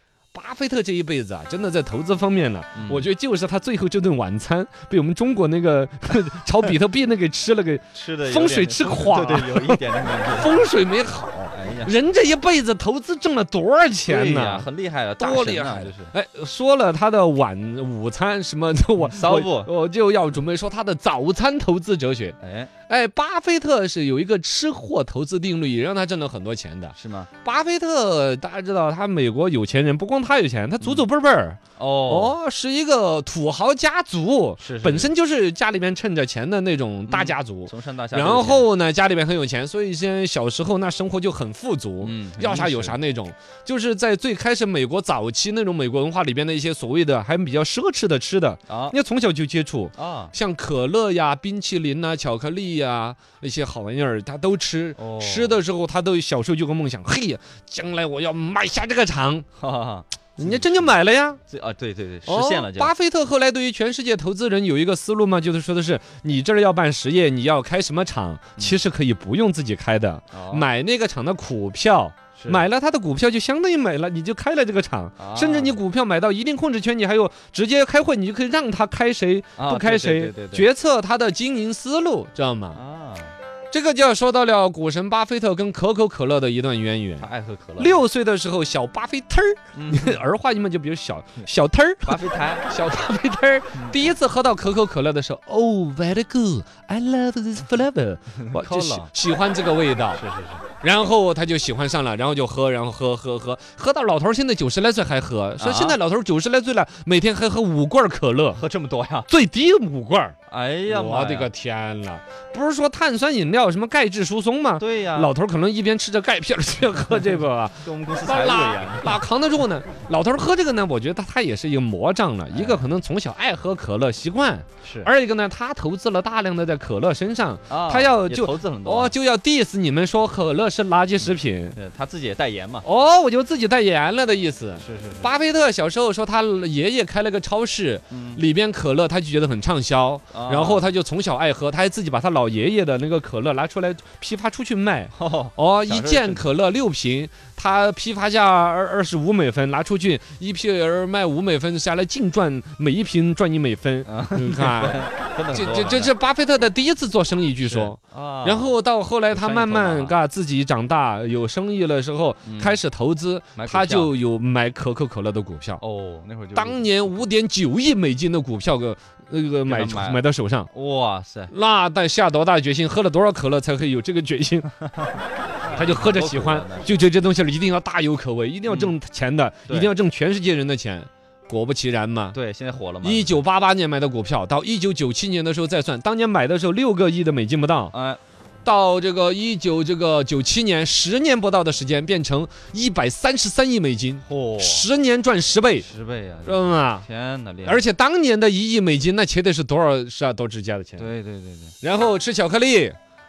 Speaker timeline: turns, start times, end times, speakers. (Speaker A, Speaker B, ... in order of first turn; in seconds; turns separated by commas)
Speaker A: 0.3-14.7, Speaker B: 2.8-3.1, Speaker B: 7.9-10.7, Speaker B: 11.5-11.9, Speaker B: 14.1-16.1, Speaker A: 15.2-22.4, Speaker B: 19.0-19.7, Speaker B: 22.4-22.7, Speaker A: 22.9-59.5, Speaker B: 26.9-27.3, Speaker B: 31.8-32.4, Speaker B: 34.6-35.1, Speaker B: 37.1-38.7, Speaker B: 42.0-43.0, Speaker B: 48.7-49.0, Speaker B: 50.0-50.4, Speaker B: 55.0-55.6, Speaker B: 59.6-62.9, Speaker A: 60.4-61.4, Speaker A: 62.3-82.8, Speaker B: 70.3-70.7, Speaker B: 72.3-72.7, Speaker B: 75.2-75.8, Speaker B: 79.6-80.7, Speaker B: 82.7-83.3, Speaker A: 83.7-100.2, Speaker B: 87.2-88.0, Speaker B: 89.8-90.2, Speaker B: 92.0-92.7, Speaker B: 93.7-94.0, Speaker B: 98.4-99.1, Speaker B: 100.1-100.7, Speaker A: 100.8-108.6, Speaker B: 105.6-106.0, Speaker B: 108.5-109.3, Speaker A: 109.3-110.3, Speaker B: 110.5-111.5, Speaker A: 110.9-131.8, Speaker B: 114.8-115.3, Speaker B: 117.8-119.2, Speaker B: 122.5-122.9, Speaker B: 124.8-125.1, Speaker B: 127.7-129.2, Speaker B: 131.2-132.9, Speaker A: 132.8-165.8, Speaker B: 134.8-135.3, Speaker B: 138.1-138.4, Speaker B: 140.3-140.9, Speaker B: 145.1-146.4, Speaker B: 154.1-156.1, Speaker B: 157.6-158.8, Speaker B: 159.3-160.2, Speaker B: 162.4-162.8, Speaker B: 163.6-164.1, Speaker B: 165.8-167.2, Speaker A: 166.6-170.7, Speaker B: 169.7-171.5, Speaker A: 171.5-174.7, Speaker B: 175.6-177.1, Speaker A: 175.8-182.4, Speaker B: 178.7-179.0, Speaker B: 179.7-179.9, Speaker B: 182.3-183.4, Speaker A: 183.0-187.9, Speaker B: 187.9-188.2, Speaker A: 188.7-195.9, Speaker B: 194.2-194.9, Speaker B: 195.8-197.9, Speaker A: 196.5-197.1, Speaker A: 197.7-201.1, Speaker B: 201.0-201.7, Speaker A: 201.8-203.0